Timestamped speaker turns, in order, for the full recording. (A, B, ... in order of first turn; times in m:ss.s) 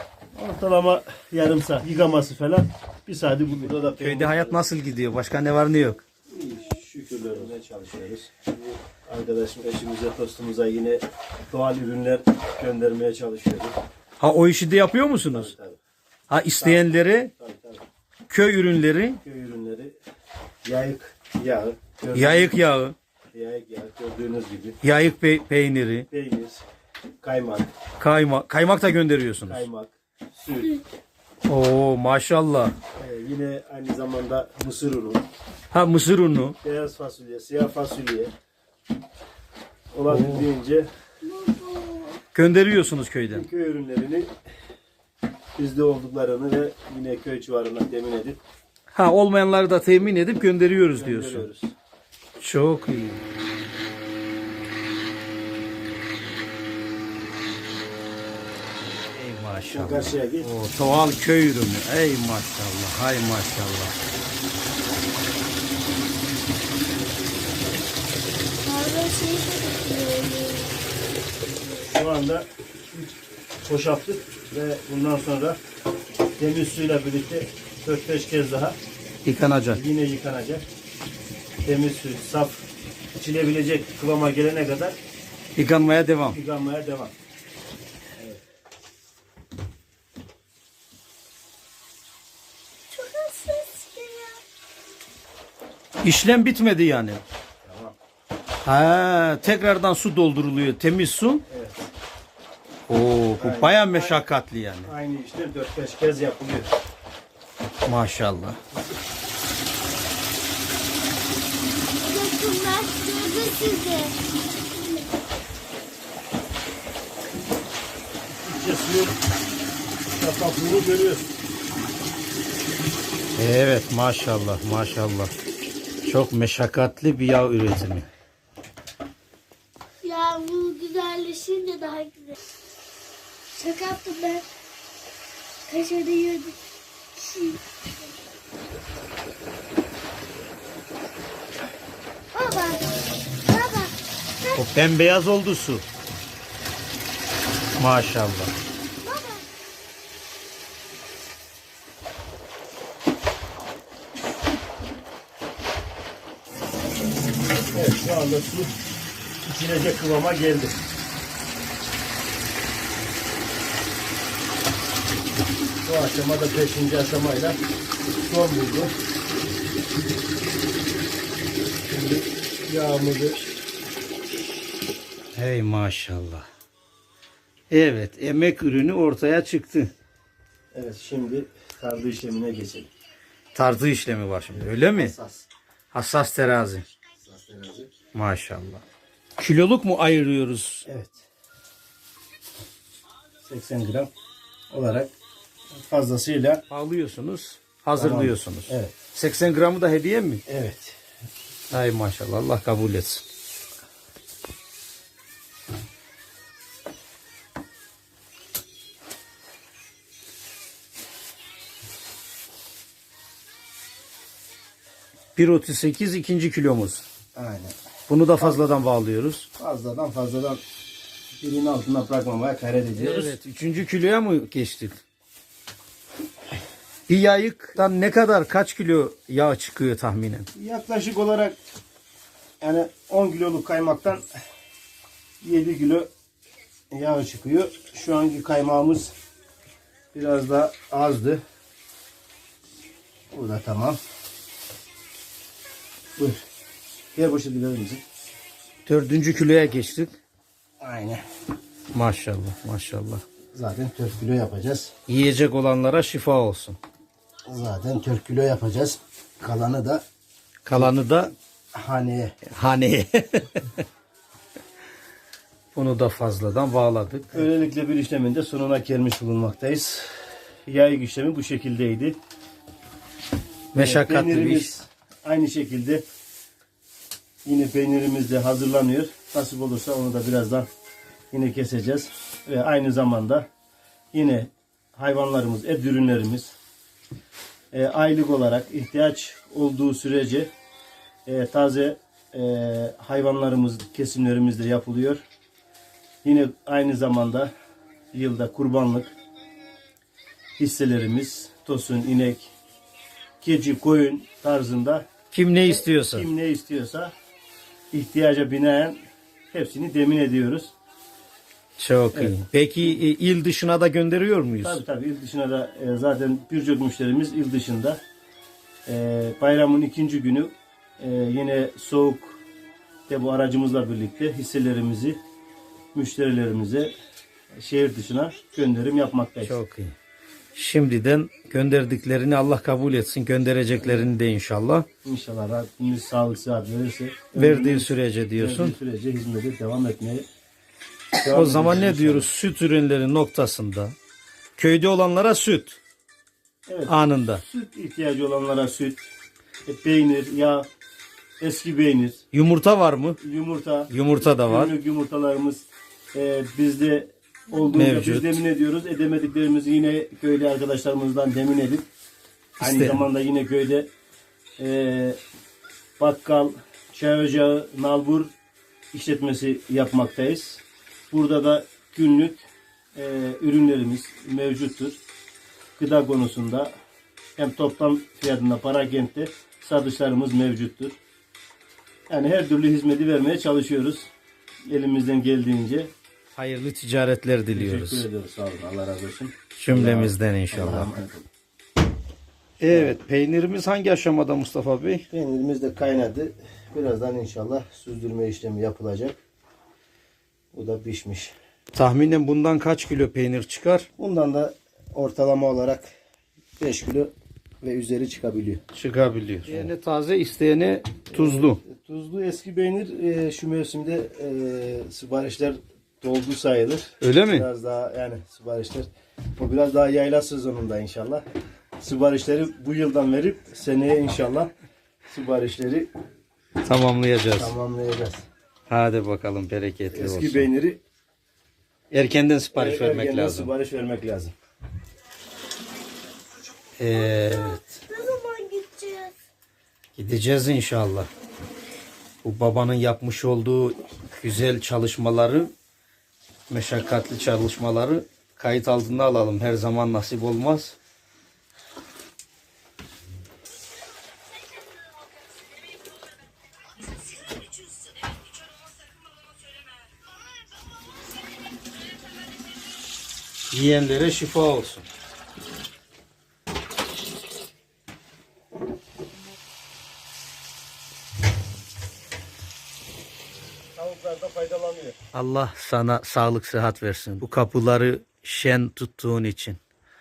0:00.3-0:04.6 A
0:03.6-0:06.0 B
0:06.3-0:13.8 A
0:14.2-0:15.5 B
0:15.3-0:15.8 A
0:16.3-0:17.3 B
0:16.6-0:17.8 A
0:18.3-0:19.2 B
0:19.2-0:19.9 A
0:20.6-0:22.5 A
0:22.1-0:22.9 B
0:23.3-0:24.8 A
0:24.8-0:26.1 B
0:26.1-0:26.6 A
0:27.2-0:27.7 A
0:28.0-0:29.6 B
0:29.4-0:30.8 A
0:31.4-0:32.7 B
0:33.0-0:35.2 A
0:35.7-0:36.6 B
0:36.6-0:38.3 A
0:39.9-0:40.9 A
0:40.1-0:40.4 B
0:41.2-0:42.2 C
0:42.3-0:43.4 B
0:43.3-0:44.3 A
0:45.6-0:48.4 A
0:48.9-0:51.4 B
0:50.9-0:51.7 A
0:52.4-0:53.2 B
0:59.1-1:04.0 B
0:59.7-1:00.5 A
1:08.6-1:10.8 C
1:11.6-1:15.6 A
1:16.4-1:18.8 A
1:19.2-1:19.8 B
1:19.7-1:20.6 A
1:21.6-1:22.6 A
1:23.2-1:25.0 A
1:25.5-1:26.4 B
1:26.3-1:27.1 A
1:32.9-1:34.4 C
1:36.0-1:37.2 B
1:37.6-1:37.9 A
1:38.6-1:41.4 B
1:41.5-1:41.9 A
1:42.9-1:44.9 B
1:43.4-1:44.2 A
1:44.8-1:46.7 A
1:47.8-1:48.6 B
1:52.0-1:54.2 C
1:54.7-1:55.1 C
1:58.3-1:59.2 A
2:00.2-2:01.3 A
2:03.4-2:05.3 B
2:06.0-2:08.1 B
2:10.0-2:12.4 C
2:13.5-2:14.5 C
2:15.7-2:16.6 C
2:17.1-2:18.1 C
2:22.3-2:22.8 C
2:23.4-2:24.6 C
2:24.5-2:25.8 B
2:27.8-2:28.5 B
2:29.0-2:29.4 C
2:37.7-2:38.7 A
2:39.4-2:40.8 A
2:45.8-2:47.6 A
2:48.2-2:48.9 A
2:51.9-2:53.5 A
2:55.3-2:56.4 B
2:57.7-2:59.9 B
3:00.7-3:02.9 A
3:03.5-3:05.1 B
3:04.6-3:05.4 A
3:05.9-3:06.8 B
3:07.2-3:07.9 A
3:08.1-3:08.8 B
3:09.4-3:10.8 B
3:10.8-3:11.2 A
3:13.4-3:14.1 A
3:14.7-3:15.1 A
3:15.7-3:16.6 A
3:16.7-3:20.4 B
3:18.0-3:19.0 A
3:20.5-3:21.0 A
3:21.7-3:23.2 B
3:35.4-3:37.0 B
3:37.4-3:37.8 A
3:38.1-3:39.5 B
3:39.6-3:40.6 A
3:41.4-3:43.4 A
3:43.0-3:45.0 B
3:47.1-3:50.5 B
3:50.5-3:51.6 A
3:52.6-3:54.2 A
3:55.4-3:56.1 A
3:56.9-3:59.1 A
4:00.1-4:01.4 A
4:03.3-4:04.0 A
4:07.1-4:08.0 A
4:08.8-4:10.2 B
4:10.8-4:11.2 A
4:11.9-4:13.2 B
4:13.5-4:14.9 A
4:15.1-4:16.8 B
4:17.5-4:20.0 A
4:20.6-4:21.3 B
4:21.7-4:22.4 A
4:22.5-4:23.8 B
4:25.7-4:27.5 B
4:27.3-4:30.1 A
4:30.6-4:32.2 A
4:33.7-4:34.7 B
4:33.7-4:36.0 A
4:37.4-4:40.7 A
4:41.3-4:43.4 A
4:44.1-4:46.5 A
4:47.7-4:50.5 A
4:51.2-4:55.2 A
4:56.2-4:57.5 A
4:58.1-4:59.1 A
5:00.6-5:02.5 A
5:03.4-5:05.0 A
5:05.3-5:06.3 B
5:05.6-5:07.1 A
5:07.9-5:09.0 A
5:09.5-5:10.7 A
5:11.8-5:14.8 B
5:14.6-5:18.0 A
5:18.8-5:22.4 A
5:23.1-5:25.2 A
5:25.9-5:26.9 A
5:27.6-5:29.6 A
5:29.4-5:29.9 B
5:30.5-5:34.8 B
5:33.8-5:34.1 A
5:35.0-5:40.2 A
5:37.3-5:38.8 B
5:41.2-5:42.3 A
5:41.3-5:43.9 B
5:44.6-5:45.8 B
5:46.7-5:49.1 A
5:46.9-5:47.4 B
5:49.6-5:50.7 A
5:51.4-5:52.2 A
5:52.3-5:53.2 B
5:53.2-6:01.9 A
5:53.9-5:54.7 B
5:57.7-5:58.4 B
6:02.6-6:03.0 B
6:02.6-6:03.9 A
6:04.6-6:05.2 A
6:06.0-6:08.3 A
6:08.9-6:15.0 A
6:15.8-6:16.7 A
6:17.4-6:21.0 A
6:22.1-6:24.1 A
6:24.6-6:25.9 A
6:26.3-6:28.0 B
6:27.5-6:31.3 A
6:29.5-6:30.9 B
6:32.6-6:35.0 B
6:32.7-6:33.0 A
6:35.1-6:39.2 A
6:40.5-6:41.3 A
6:41.7-6:43.9 B
6:44.0-6:45.9 A
6:46.6-6:48.6 A
6:48.7-6:51.6 B
6:51.1-7:01.2 A
6:57.0-6:57.5 B
7:01.8-7:04.5 A
7:05.1-7:05.9 A
7:06.6-7:07.5 B
7:07.3-7:08.2 A
7:08.7-7:10.5 B
7:09.9-7:10.8 A
7:11.9-7:13.5 B
7:12.5-7:14.3 A
7:16.8-7:17.6 B
7:16.9-7:19.1 C
7:20.0-7:21.1 B
7:22.2-7:25.5 B
7:26.5-7:30.8 B
7:43.5-7:44.9 B
7:53.8-7:55.0 A
7:55.1-7:59.6 B